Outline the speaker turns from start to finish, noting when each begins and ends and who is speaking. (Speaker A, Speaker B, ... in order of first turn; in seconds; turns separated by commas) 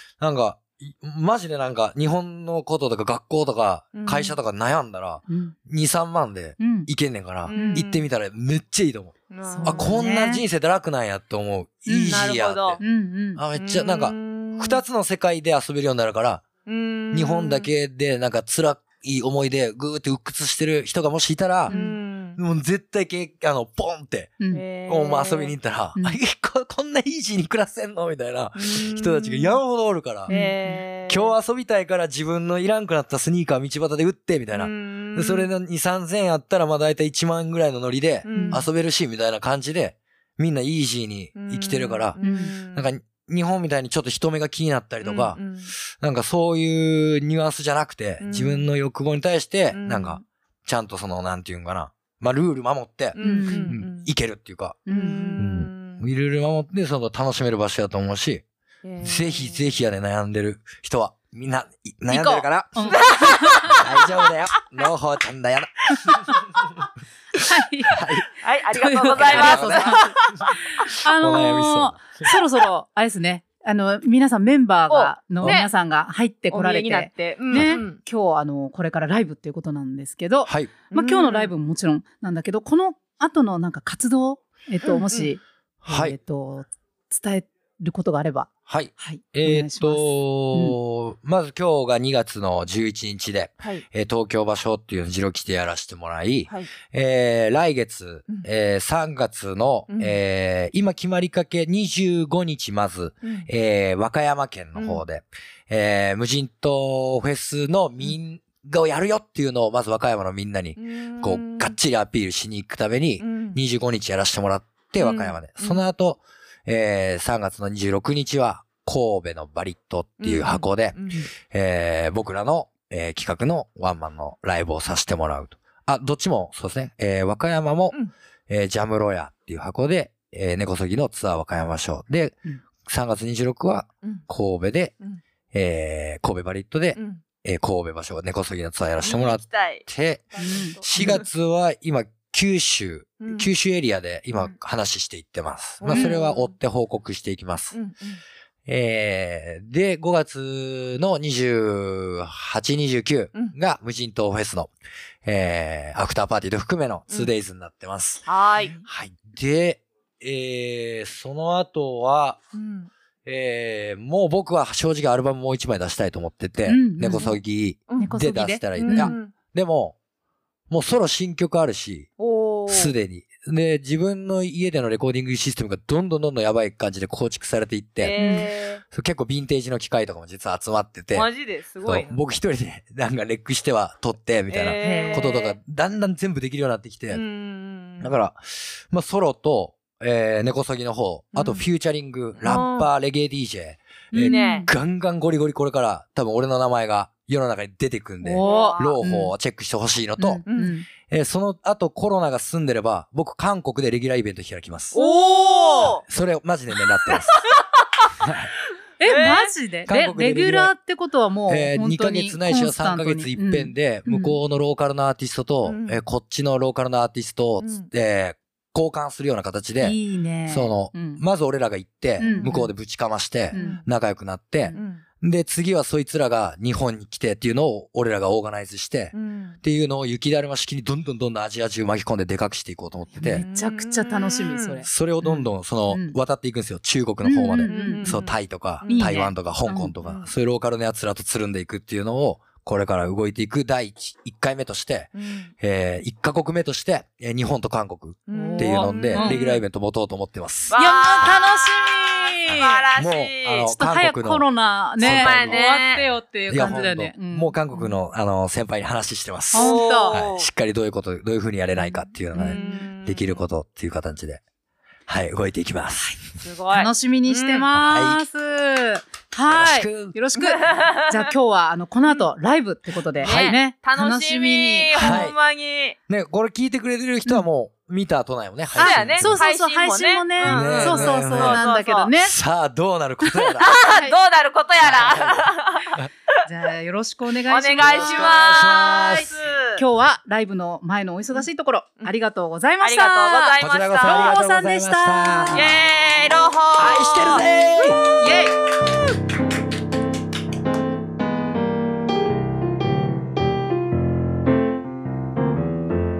Speaker A: 0.2-12.8, Speaker B: 3.9-4.3, Speaker C: 5.3-5.5, Speaker C: 6.6-6.9, Speaker B: 7.5-8.0, Speaker C: 7.5-7.8, Speaker B: 9.3-10.1, Speaker C: 9.4-10.4, Speaker C: 11.9-12.2, Speaker B: 12.0-12.8, Speaker C: 12.8-13.4, Speaker A: 13.3-16.4, Speaker B: 13.6-14.8, Speaker B: 16.6-17.7, Speaker A: 17.1-21.8, Speaker B: 21.7-22.4, Speaker C: 21.7-22.0, Speaker A: 22.4-30.3, Speaker B: 24.5-25.5, Speaker B: 28.6-29.6, Speaker B: 30.3-31.3, Speaker C: 30.3-30.8, Speaker A: 31.1-45.4, Speaker B: 34.5-35.5, Speaker B: 38.2-38.6, Speaker C: 38.3-38.6, Speaker B: 41.4-42.9, Speaker C: 42.2-42.5, Speaker B: 45.0-45.7, Speaker A: 45.9-54.8, Speaker B: 48.2-48.6, Speaker B: 49.7-50.2, Speaker B: 53.1-54.1, Speaker C: 53.2-53.8, Speaker C: 54.9-55.4, Speaker B: 54.9-56.0, Speaker A: 55.4-58.4, Speaker B: 58.8-59.8, Speaker A: 59.0-66.4, Speaker C: 62.1-63.8, Speaker B: 62.8-63.9, Speaker A: 67.4-68.3, Speaker C: 67.4-68.0, Speaker B: 68.4-70.4, Speaker C: 68.7-70.2, Speaker A: 69.1-72.3, Speaker C: 70.8-90.8, Speaker B: 74.9-75.7, Speaker B: 76.5-78.0, Speaker A: 77.5-77.8, Speaker A: 80.5-80.7, Speaker B: 80.9-81.5, Speaker B: 84.8-85.3, Speaker A: 85.8-86.2, Speaker A: 88.7-128.0, Speaker B: 99.9-100.2, Speaker B: 103.2-103.5, Speaker B: 104.8-105.0, Speaker B: 110.8-111.8, Speaker B: 113.2-113.6, Speaker B: 115.0-115.8, Speaker B: 120.2-121.3, Speaker A: 128.5-134.9, Speaker A: 135.5-147.8, Speaker B: 137.0-137.2, Speaker B: 139.0-141.2, Speaker C: 140.4-141.2, Speaker B: 143.2-143.5, Speaker B: 145.8-146.5, Speaker C: 145.9-146.1, Speaker B: 147.7-148.2, Speaker A: 148.7-154.7, Speaker A: 155.2-158.3, Speaker B: 158.3-158.8, Speaker A: 158.8-162.4, Speaker B: 162.5-162.9, Speaker A: 163.2-169.9, Speaker C: 166.7-167.4, Speaker C: 168.0-169.2, Speaker B: 168.8-169.3, Speaker A: 170.7-172.1, Speaker B: 172.2-172.9, Speaker A: 172.7-178.2, Speaker B: 178.0-178.8, Speaker C: 178.2-178.5, Speaker A: 178.9-181.3, Speaker B: 181.1-182.1, Speaker A: 181.8-187.2, Speaker B: 184.5-185.6, Speaker C: 184.8-185.3, Speaker B: 187.1-188.1, Speaker A: 188.0-200.4, Speaker B: 191.3-191.6, Speaker B: 192.4-192.9, Speaker C: 194.1-194.7, Speaker B: 194.2-194.7, Speaker C: 198.2-199.3, Speaker B: 198.4-199.0, Speaker C: 200.2-200.9, Speaker B: 200.5-200.7, Speaker A: 201.0-204.9, Speaker C: 204.9-206.0, Speaker B: 204.9-206.0, Speaker A: 205.8-207.4, Speaker A: 208.2-208.5, Speaker C: 209.0-214.4, Speaker B: 209.0-209.5, Speaker A: 209.8-210.7, Speaker A: 211.5-233.4, Speaker B: 215.6-216.0, Speaker B: 217.6-217.9, Speaker C: 219.8-221.2, Speaker B: 222.2-222.6, Speaker C: 222.2-222.7, Speaker C: 223.5-223.8, Speaker B: 223.5-223.9, Speaker B: 224.7-225.0, Speaker B: 229.1-229.6, Speaker C: 233.1-236.2, Speaker B: 233.3-234.8, Speaker A: 234.8-251.3, Speaker C: 237.2-238.2, Speaker B: 237.4-239.2, Speaker C: 238.9-239.9, Speaker B: 240.0-240.3, Speaker B: 245.1-245.5, Speaker B: 248.3-249.6, Speaker C: 248.3-249.4, Speaker B: 250.7-253.7, Speaker C: 250.7-252.9, Speaker A: 252.5-254.5, Speaker C: 253.8-257.9, Speaker A: 255.0-264.4, Speaker B: 255.0-256.0, Speaker C: 259.5-260.2, Speaker B: 259.5-260.5, Speaker C: 262.3-262.8, Speaker B: 262.4-263.4, Speaker A: 265.1-266.2, Speaker B: 266.4-267.7, Speaker C: 266.7-275.2, Speaker A: 267.7-268.2, Speaker A: 269.5-270.1, Speaker B: 270.4-271.3, Speaker B: 273.2-276.0, Speaker A: 273.2-273.6, Speaker A: 274.9-275.4, Speaker A: 276.1-279.4, Speaker B: 278.8-282.1, Speaker C: 278.8-282.3, Speaker A: 280.4-281.6, Speaker A: 282.2-283.7, Speaker C: 283.2-284.1, Speaker B: 283.6-286.0, Speaker A: 284.8-286.1, Speaker C: 286.4-289.1, Speaker B: 287.5-289.8, Speaker A: 287.8-289.4, Speaker C: 289.7-295.7, Speaker B: 292.8-294.4, Speaker A: 293.6-295.8, Speaker B: 295.5-298.2, Speaker A: 296.8-298.0, Speaker C: 298.1-298.5